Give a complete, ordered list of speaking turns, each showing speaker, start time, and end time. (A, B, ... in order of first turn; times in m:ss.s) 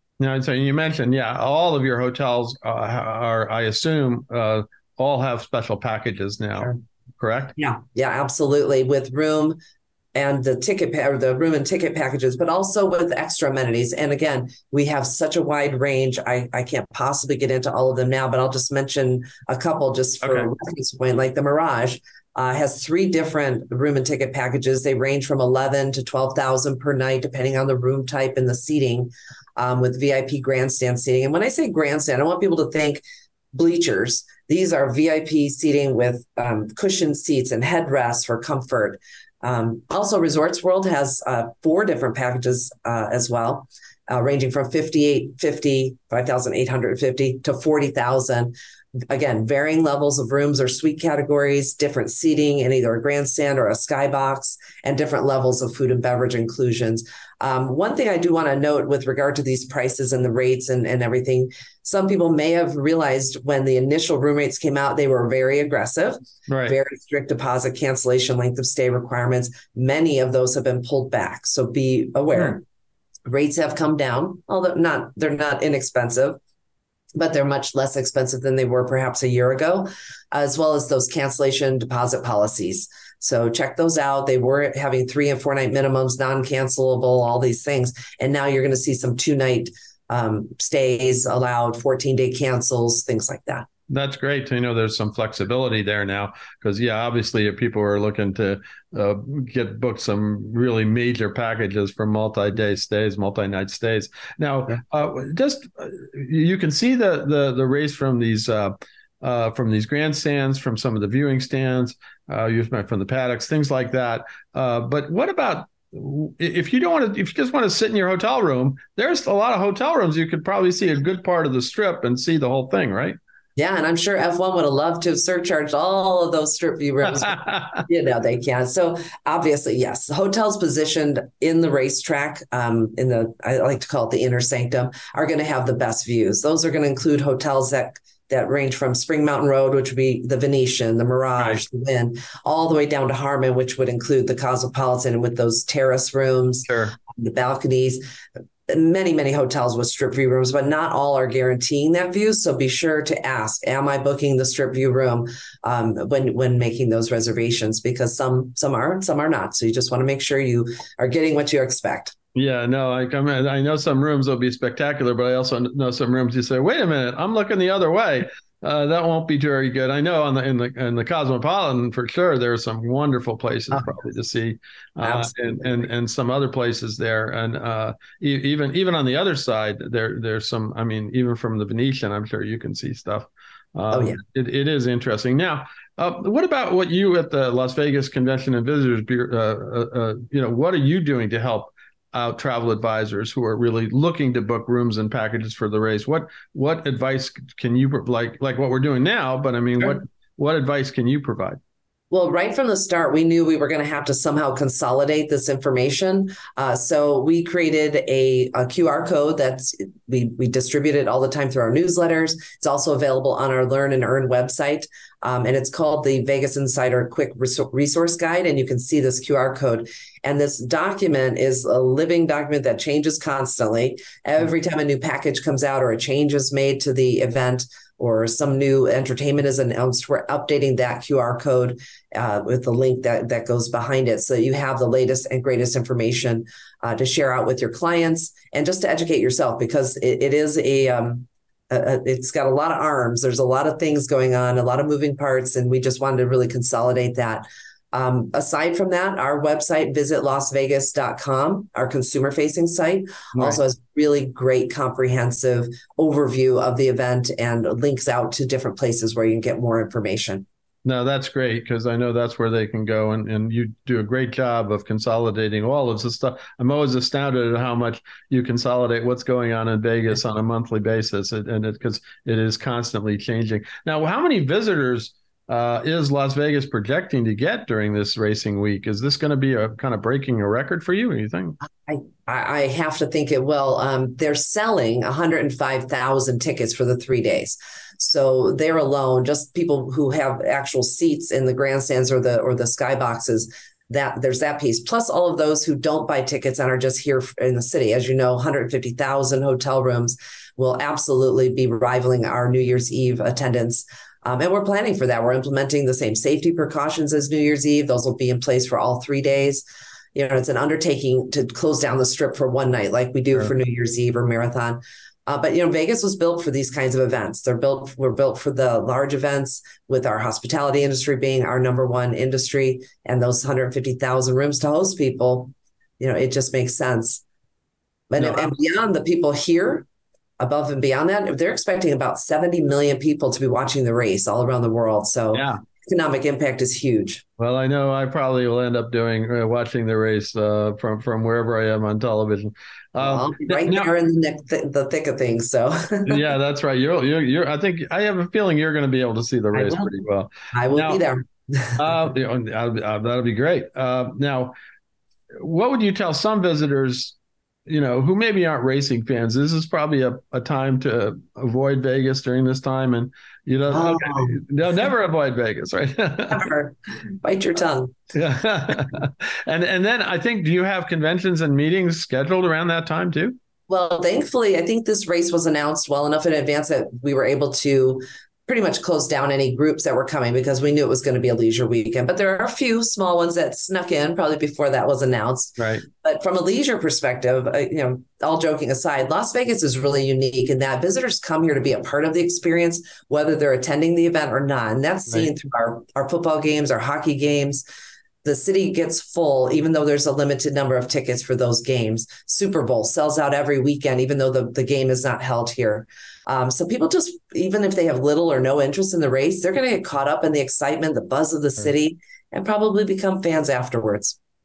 0:00.2-0:07.6 A
0:07.6-0:09.6 B
0:10.2-0:48.6 B
0:20.2-0:20.5 A
0:49.1-1:12.6 B
1:06.5-1:06.8 A
1:13.3-1:16.4 B
1:17.2-1:33.7 B
1:33.9-2:03.2 A
2:03.6-2:28.0 B
2:07.2-2:07.8 A
2:21.4-2:21.6 A
2:26.7-2:27.0 A
2:28.7-2:42.2 B
2:42.4-3:21.6 A
2:55.0-2:55.8 B
3:03.9-3:04.2 B
3:22.1-4:20.5 B
4:13.3-4:13.6 A
4:20.8-4:41.6 A
4:41.7-5:27.2 B
5:28.1-5:29.9 B
5:28.2-5:28.5 A
5:30.4-5:37.2 B
5:35.3-5:35.6 A
5:37.4-5:43.9 A
5:43.0-5:46.2 B
5:46.1-5:51.0 A
5:49.5-5:49.9 B
5:50.5-5:52.0 B
5:51.8-5:54.5 A
5:55.4-6:06.4 A
6:03.7-6:04.4 B
6:06.3-6:08.0 B
6:08.1-6:13.4 A
6:13.7-6:37.7 B
6:25.6-6:25.9 A
6:38.2-6:54.2 B